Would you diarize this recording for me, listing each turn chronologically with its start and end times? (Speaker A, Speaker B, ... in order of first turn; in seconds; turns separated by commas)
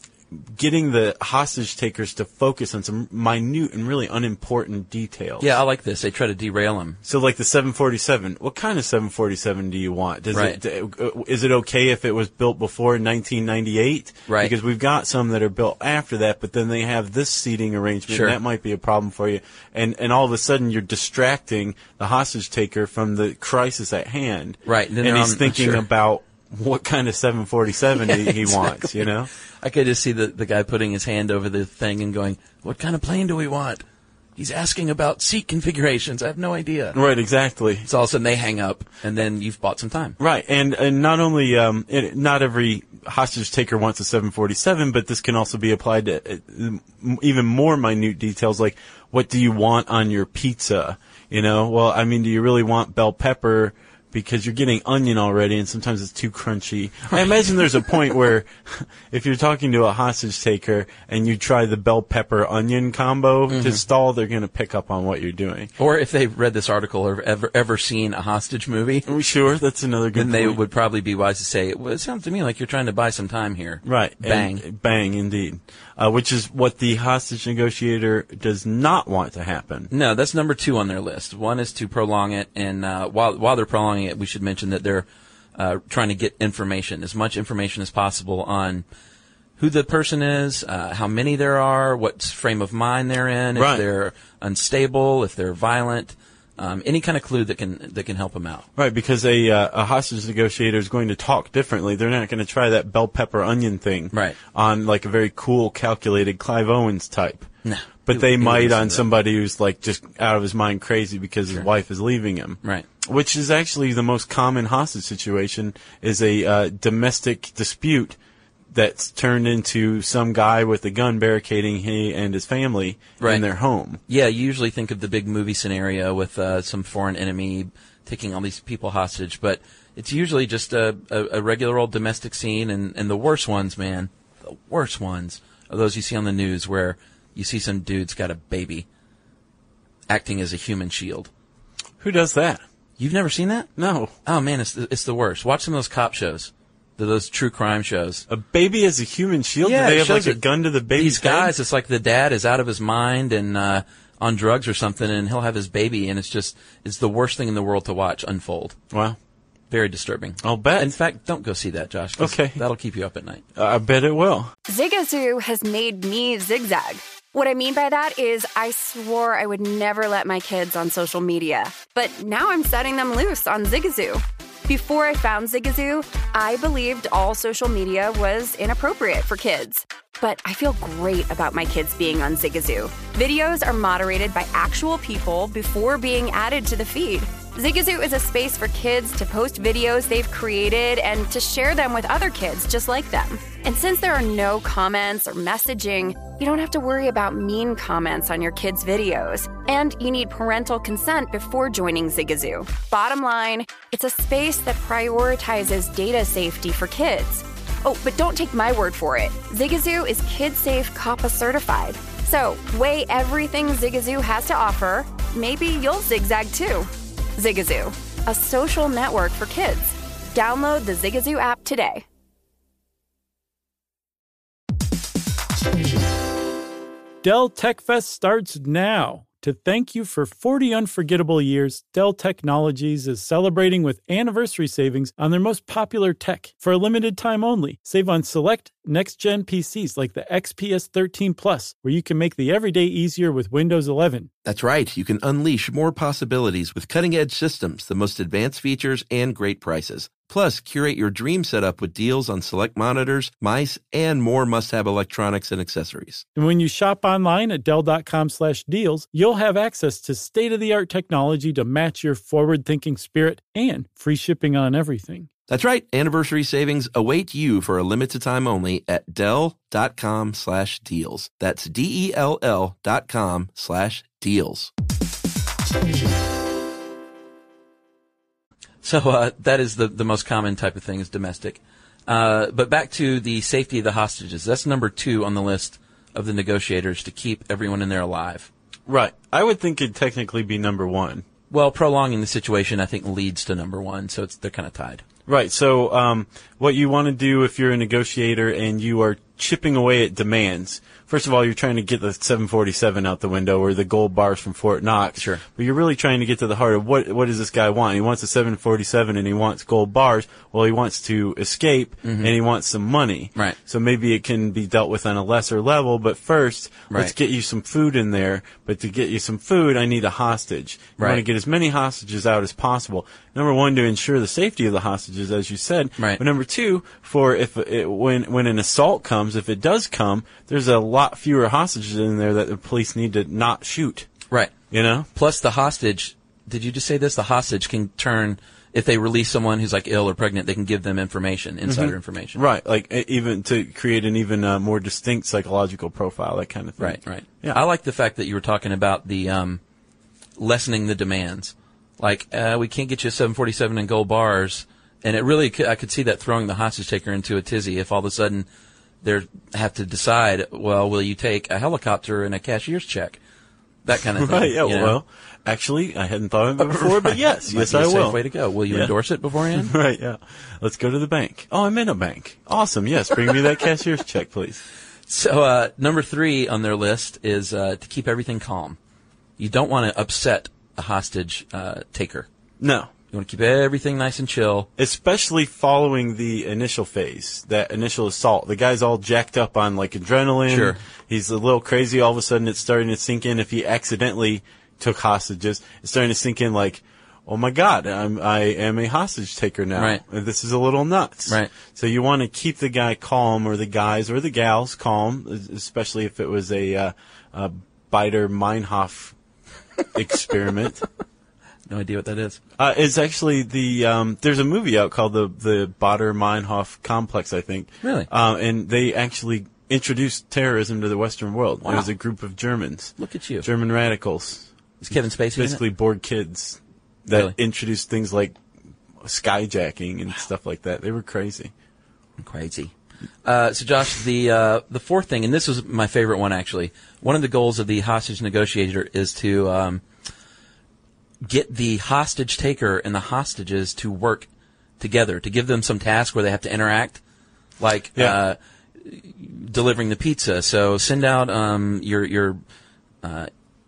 Speaker A: 0.3-5.6, Speaker B: 5.4-7.0, Speaker A: 7.0-29.3, Speaker B: 14.3-14.5, Speaker B: 18.1-18.4, Speaker B: 24.6-25.9, Speaker B: 28.0-29.1, Speaker B: 29.6-33.8, Speaker B: 34.4-37.0, Speaker A: 36.9-37.9, Speaker B: 37.9-40.2, Speaker A: 40.2-65.7, Speaker B: 63.5-63.8, Speaker B: 65.8-69.1, Speaker A: 69.1-70.6, Speaker B: 70.2-74.6, Speaker A: 73.8-79.9, Speaker B: 79.9-88.8, Speaker B: 89.6-98.7, Speaker A: 93.5-93.8, Speaker A: 98.8-107.5, Speaker B: 104.1-104.4, Speaker B: 107.7-109.1, Speaker A: 108.0-118.2, Speaker A: 118.7-124.0, Speaker B: 123.2-123.4, Speaker B: 124.1-138.9, Speaker B: 140.1-141.3, Speaker A: 142.0-142.6, Speaker B: 143.0-143.7, Speaker A: 143.8-144.1, Speaker B: 144.2-148.2, Speaker A: 148.3-151.6, Speaker B: 149.6-150.4, Speaker B: 150.9-158.8, Speaker A: 158.9-159.2, Speaker B: 159.7-163.4, Speaker A: 160.4-160.9, Speaker A: 162.2-162.6, Speaker A: 163.6-164.5, Speaker C: 164.7-222.0, Speaker D: 227.2-244.3, Speaker E: 244.4-256.3, Speaker D: 256.4-265.3, Speaker E: 265.5-274.7, Speaker B: 278.8-288.5, Speaker A: 288.9-291.2, Speaker B: 291.5-295.0, Speaker A: 295.3-334.1, Speaker B: 305.2-305.4, Speaker B: 312.0-312.3, Speaker B: 321.0-321.2, Speaker A: 334.7-335.1, Speaker B: 335.1-342.4, Speaker A: 341.7-347.6, Speaker B: 346.8-349.6, Speaker B: 350.4-358.5, Speaker B: 359.0-363.2, Speaker B: 363.9-365.0, Speaker A: 364.2-368.9, Speaker B: 366.6-369.7, Speaker A: 369.5-374.6, Speaker B: 375.1-378.8, Speaker B: 379.4-382.3, Speaker A: 382.6-382.9, Speaker B: 383.1-384.7, Speaker A: 384.8-409.1, Speaker B: 390.5-390.8, Speaker B: 399.8-400.0, Speaker A: 409.9-410.9, Speaker B: 411.7-412.4, Speaker A: 412.6-428.4, Speaker B: 417.8-418.1, Speaker B: 423.0-423.5, Speaker B: 424.8-425.6, Speaker B: 427.1-427.4, Speaker A: 429.0-431.5, Speaker B: 432.2-432.7, Speaker B: 433.2-439.8, Speaker B: 441.2-444.3, Speaker B: 444.8-447.0, Speaker B: 447.6-452.4, Speaker B: 453.0-453.3